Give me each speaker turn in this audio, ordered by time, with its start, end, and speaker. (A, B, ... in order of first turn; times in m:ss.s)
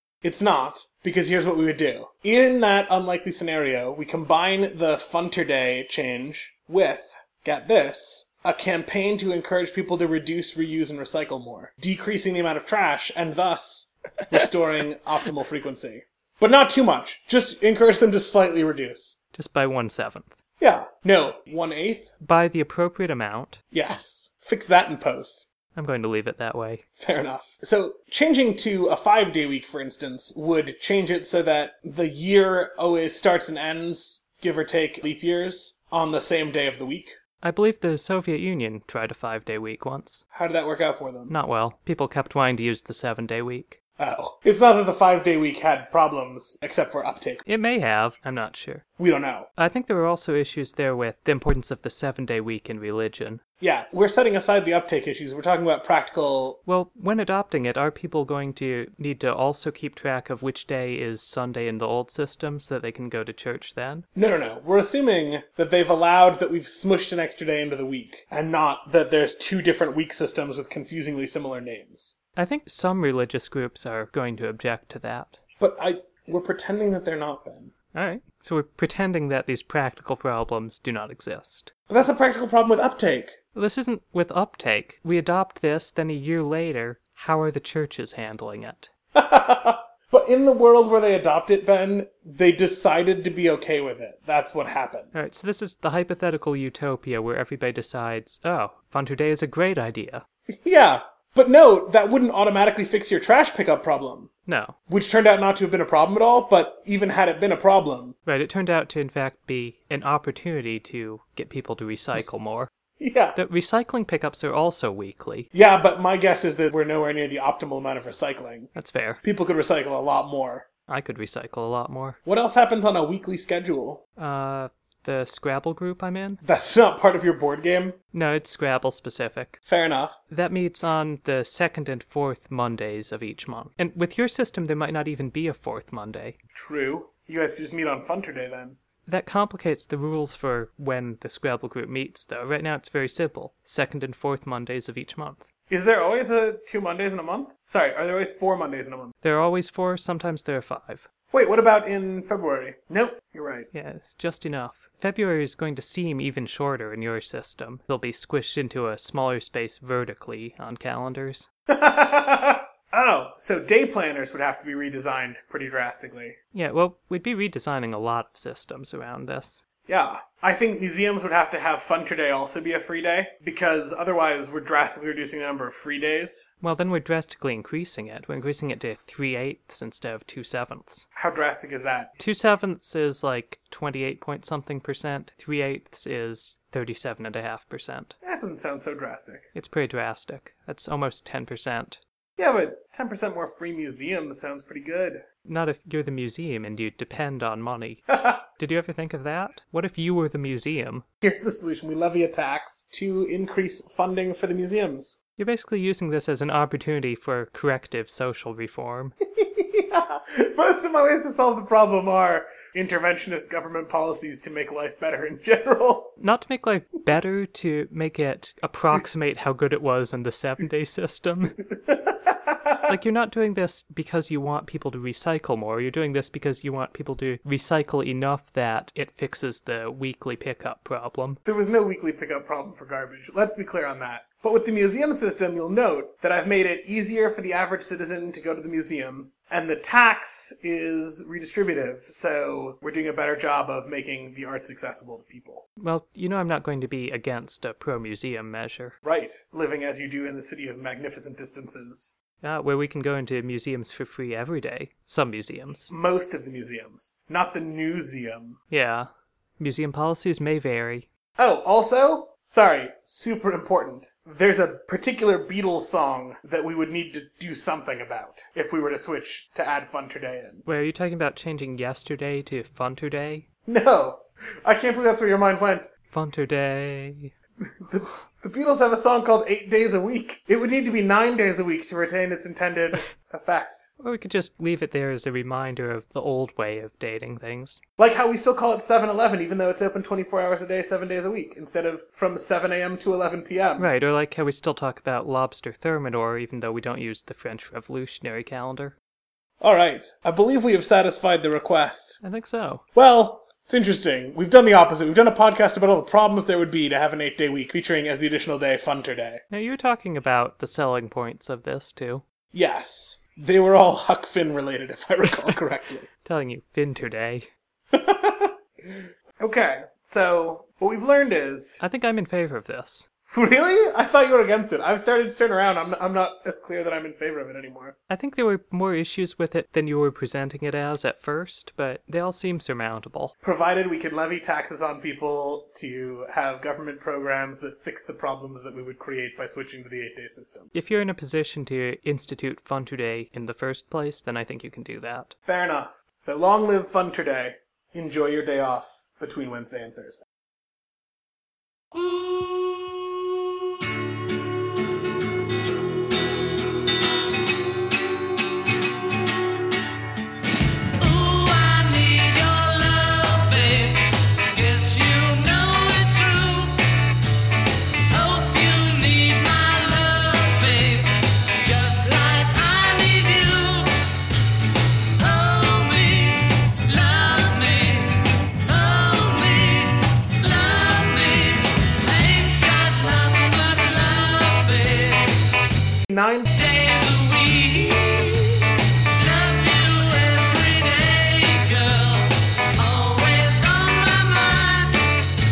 0:00.2-0:19.2 A
0:19.3-0:20.4 B
0:20.6-0:22.1 A
0:22.2-0:23.6 B
0:23.7-0:25.5 A
0:25.8-0:26.8 B
0:27.0-0:37.2 A
0:37.4-0:40.2 B
0:40.3-0:41.3 A
0:41.3-0:43.8 B
0:44.0-0:47.4 A
0:47.5-0:48.8 B
0:49.0-0:49.5 A
0:49.6-0:53.4 B
0:53.6-0:56.6 A
0:56.7-1:04.1 B
1:04.2-1:12.2 A
1:12.4-1:15.4 B
1:15.6-1:17.7 A
1:17.9-1:21.7 B
1:21.9-1:23.4 A
1:23.6-1:28.9 B
1:29.1-1:35.1 A
1:35.1-1:40.2 B
1:40.5-1:44.3 A
1:44.5-1:44.8 B
1:44.9-1:48.2 A
1:48.3-1:52.7 B
1:53.0-1:53.4 A
1:53.4-1:55.5 B
1:55.5-1:58.7 A
1:58.8-1:59.2 B
1:59.2-2:00.7 A
2:00.9-2:02.2 B
2:02.2-2:04.0 A
2:04.2-2:06.4 B
2:06.4-2:08.0 A
2:08.1-2:09.6 B
2:09.7-2:10.2 A
2:10.3-2:16.4 B
2:16.5-2:18.8 A
2:19.1-2:25.5 B
2:25.7-2:29.1 A
2:29.2-2:31.1 B
2:31.3-2:33.7 A
2:33.7-2:41.5 B
2:41.7-2:46.4 A
2:46.5-2:49.6 B
2:49.9-2:56.5 A
2:56.6-3:01.1 B
3:01.2-3:02.1 A
3:02.2-3:08.2 B
3:08.2-3:09.5 A
3:09.5-3:12.0 B
3:12.4-3:15.2 A
3:15.4-3:21.0 B
3:18.1-3:18.4 A
3:21.2-3:25.2 A
3:25.4-3:29.2 B
3:29.3-3:36.1 A
3:36.2-3:41.6 B
3:41.8-3:42.8 A
3:42.8-3:51.4 B
3:51.4-4:05.6 A
4:05.8-4:09.0 B
4:09.0-4:12.2 A
4:12.4-4:15.9 B
4:15.9-4:18.6 A
4:18.7-4:21.1 B
4:21.4-4:30.6 A
4:30.7-4:33.5 B
4:33.7-4:35.9 A
4:36.1-4:37.3 B
4:37.8-4:43.9 A
4:44.0-4:47.8 B
4:48.0-4:53.9 A
4:53.8-4:59.0 B
4:59.6-5:02.2 A
5:02.2-5:02.8 B
5:03.0-5:09.4 A
5:09.5-5:12.2 B
5:12.5-5:16.1 A
5:16.2-5:17.5 B
5:17.9-5:21.8 A
5:21.8-5:23.1 B
5:23.3-5:28.0 A
5:28.1-5:33.3 B
5:33.4-5:40.7 A
5:40.7-5:45.3 B
5:45.4-5:50.2 A
5:52.0-5:53.0 C
6:01.0-6:06.8 C
6:08.1-6:14.1 C
6:15.2-6:25.5 C
6:26.1-6:26.4 A
6:26.4-6:35.1 C